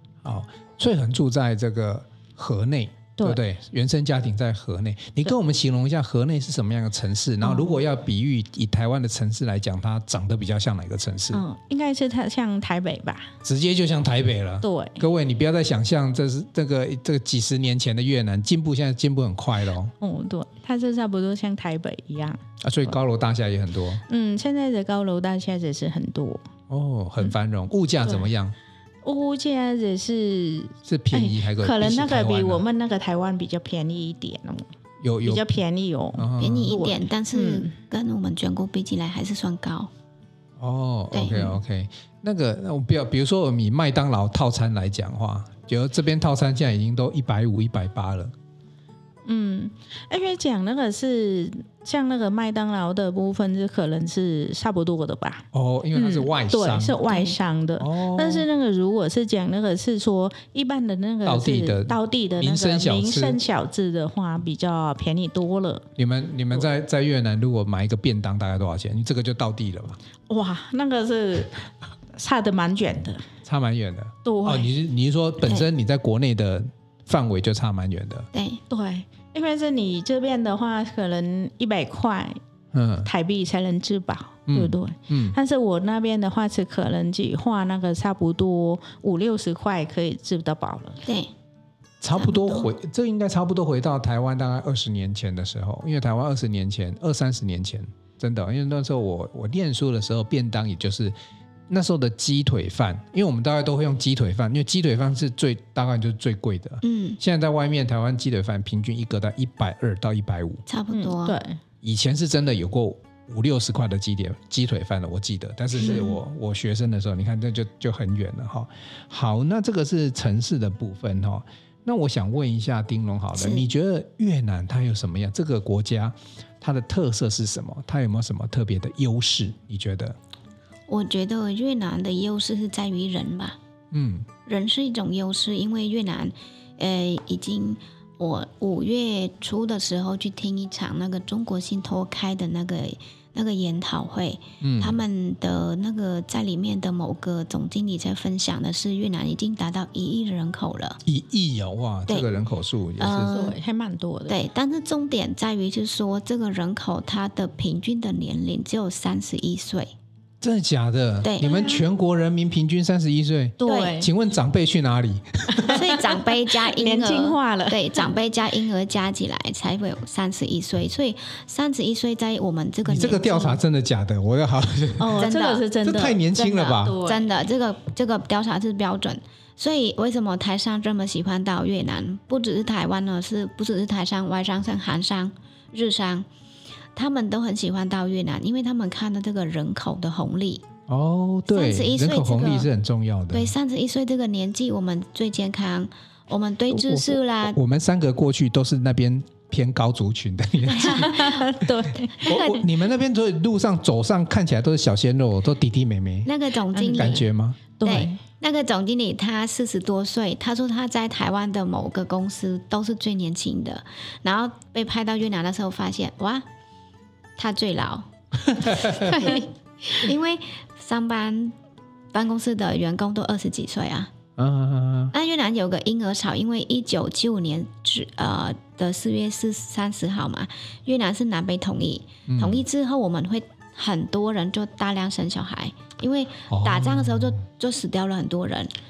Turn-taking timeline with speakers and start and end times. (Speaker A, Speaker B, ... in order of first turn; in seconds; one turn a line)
Speaker A: 0.2-11.4
Speaker B: 7.4-7.8
Speaker B: 11.3-13.3
Speaker A: 13.4-19.9
Speaker B: 14.6-15.0
Speaker B: 20.0-22.4
Speaker A: 22.6-24.0
Speaker B: 24.1-26.4
Speaker A: 26.7-28.5
Speaker B: 29.0-34.7
Speaker A: 30.8-32.6
Speaker A: 35.0-35.5
Speaker B: 35.2-37.7
Speaker A: 36.1-36.8
Speaker C: 36.4-39.9
Speaker A: 40.6-48.3
Speaker C: 41.1-41.5
Speaker B: 49.2-65.9
Speaker A: 55.5-57.3
Speaker A: 57.8-58.5
Speaker A: 61.2-63.4
Speaker A: 66.0-70.0
Speaker B: 70.3-71.6
Speaker B: 72.1-73.2
Speaker A: 73.4-78.3
Speaker B: 74.2-74.7
Speaker C: 78.3-78.6
Speaker B: 78.7-82.4
Speaker A: 82.7-83.1
Speaker B: 83.0-91.0
Speaker A: 84.5-85.3
Speaker A: 92.0-101.1
Speaker C: 92.2-92.7
Speaker A: 101.7-110.6
Speaker C: 106.8-107.2
Speaker C: 110.7-111.4
Speaker B: 110.9-111.6
Speaker A: 111.8-130.2
Speaker C: 115.8-116.2
Speaker C: 123.4-123.7
Speaker C: 130.9-133.6
Speaker A: 133.9-134.3
Speaker C: 134.4-151.0
Speaker A: 144.6-145.0
Speaker A: 151.0-153.4
Speaker C: 153.0-153.6
Speaker B: 153.3-154.3
Speaker C: 154.3-159.9
Speaker A: 160.4-165.8
Speaker C: 161.2-161.6
Speaker B: 161.4-161.7
Speaker B: 163.6-164.1
Speaker C: 163.6-164.0
Speaker B: 165.5-168.1
Speaker C: 165.7-173.6
Speaker A: 172.8-175.3
Speaker B: 175.0-177.3
Speaker C: 175.2-175.7
Speaker A: 175.8-177.0
Speaker C: 176.4-186.3
Speaker C: 186.9-190.7
Speaker A: 190.9-193.5
Speaker C: 191.5-192.7
Speaker C: 193.3-197.6
Speaker A: 196.7-201.3
Speaker C: 200.7-201.5
Speaker B: 200.8-202.4
Speaker C: 202.2-202.7
Speaker A: 202.2-206.3
Speaker C: 206.2-207.2
Speaker B: 206.7-207.2
Speaker A: 206.8-207.6
Speaker B: 207.8-208.2
Speaker C: 207.8-216.4
Speaker C: 217.4-221.5
Speaker A: 218.5-219.3
Speaker C: 222.1-224.1
Speaker A: 224.4-225.1
Speaker C: 225.1-238.7
Speaker A: 232.3-232.6
Speaker A: 236.5-237.4